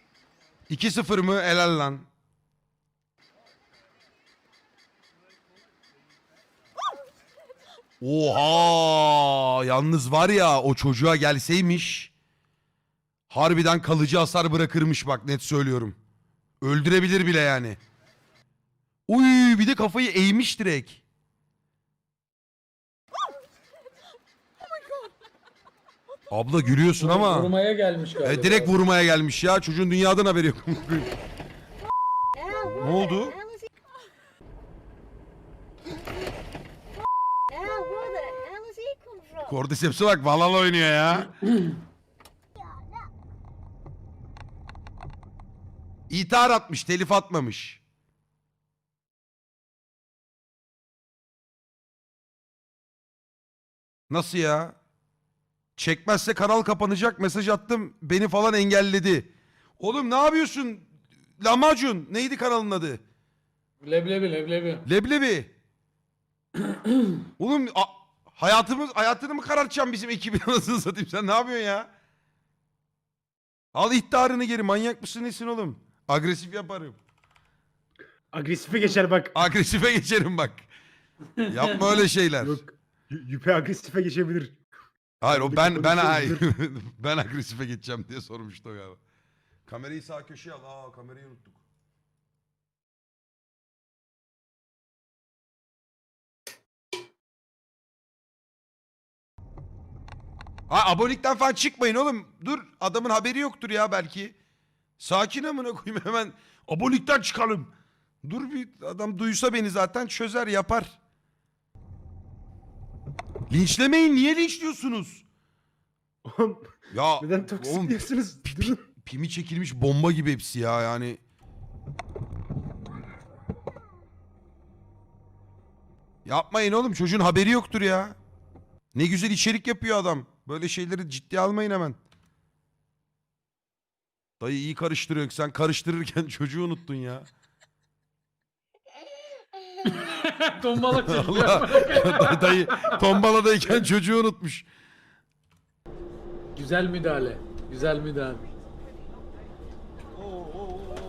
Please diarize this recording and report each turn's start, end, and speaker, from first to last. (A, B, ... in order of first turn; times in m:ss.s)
0:00.7-0:02.0 A
0:08.0-0:12.1 A
0:13.3-0:16.0 A
0:16.6-0:17.8 A
0:19.1-0:21.0 A
0:26.3-0:27.5 A
0:27.0-0:28.7 B
0:28.2-0:31.1 A
0:32.6-0:33.4 A
0:39.4-0:41.3 A
0:46.1-0:47.8 A
0:54.1-0:54.8 A
0:55.8-1:03.0 A
1:03.8-1:04.9 B
1:04.8-1:05.5 A
1:06.7-1:07.1 B
1:07.4-1:11.9 A
1:13.7-1:17.0 A
1:18.3-1:19.4 C
1:19.3-1:20.6 A
1:21.4-1:22.6 A
1:22.4-1:24.6 C
1:25.2-1:29.0 A
1:25.2-1:26.4 C
1:29.6-1:31.6 A
1:40.7-1:44.3 A
1:45.0-1:47.7 A
1:48.2-1:51.0 A
1:53.5-1:55.2 A
1:56.2-1:58.8 C
1:56.9-2:01.2 A
2:06.2-2:08.2 A
2:08.9-2:12.0 A
2:14.4-2:17.3 A
2:19.8-2:23.0 B
2:20.9-2:24.7 A
2:26.6-2:28.4 B